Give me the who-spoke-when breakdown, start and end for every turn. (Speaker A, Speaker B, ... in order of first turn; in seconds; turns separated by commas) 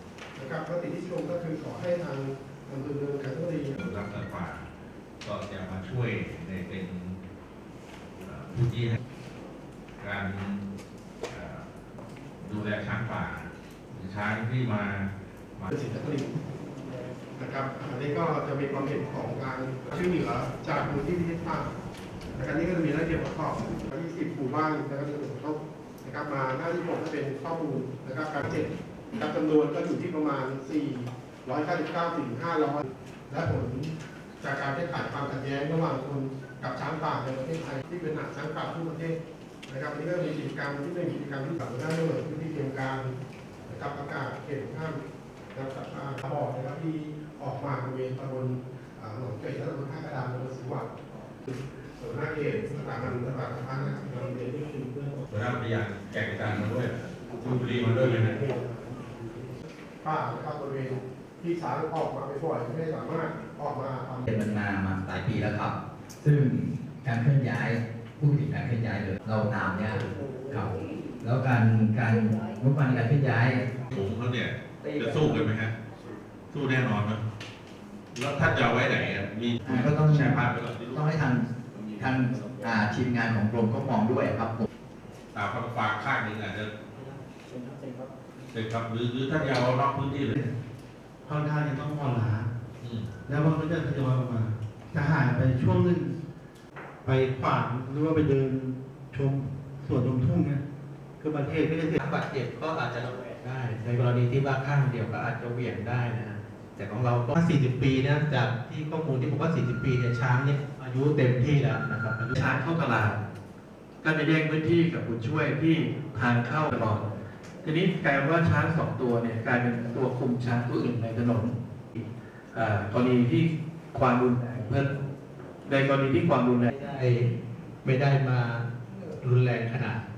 Speaker A: 0.3-3.8, Speaker B: 3.7-4.7, Speaker B: 5.2-7.2, Speaker B: 8.2-9.0, Speaker B: 10.0-10.7, Speaker B: 11.3-11.8, Speaker B: 12.4-15.7, Speaker A: 15.7-16.4, Speaker A: 17.4-21.7, Speaker A: 22.4-43.1, Speaker A: 43.7-45.0, Speaker A: 45.5-50.9, Speaker A: 51.5-55.3, Speaker B: 55.3-58.4, Speaker A: 57.4-64.3, Speaker C: 64.3-73.7, Speaker B: 73.9-75.8, Speaker B: 76.5-77.2, Speaker B: 78.1-81.0, Speaker C: 79.7-84.7, Speaker B: 85.3-86.7, Speaker B: 88.5-90.4, Speaker D: 91.2-92.5, Speaker B: 92.8-93.1, Speaker D: 93.3-96.2, Speaker D: 97.0-100.6, Speaker D: 101.2-102.0, Speaker E: 102.0-112.4, Speaker F: 112.4-113.2, Speaker F: 114.0-117.1, Speaker F: 117.6-125.0, Speaker F: 125.7-126.7, Speaker E: 126.7-127.3, Speaker E: 127.8-130.1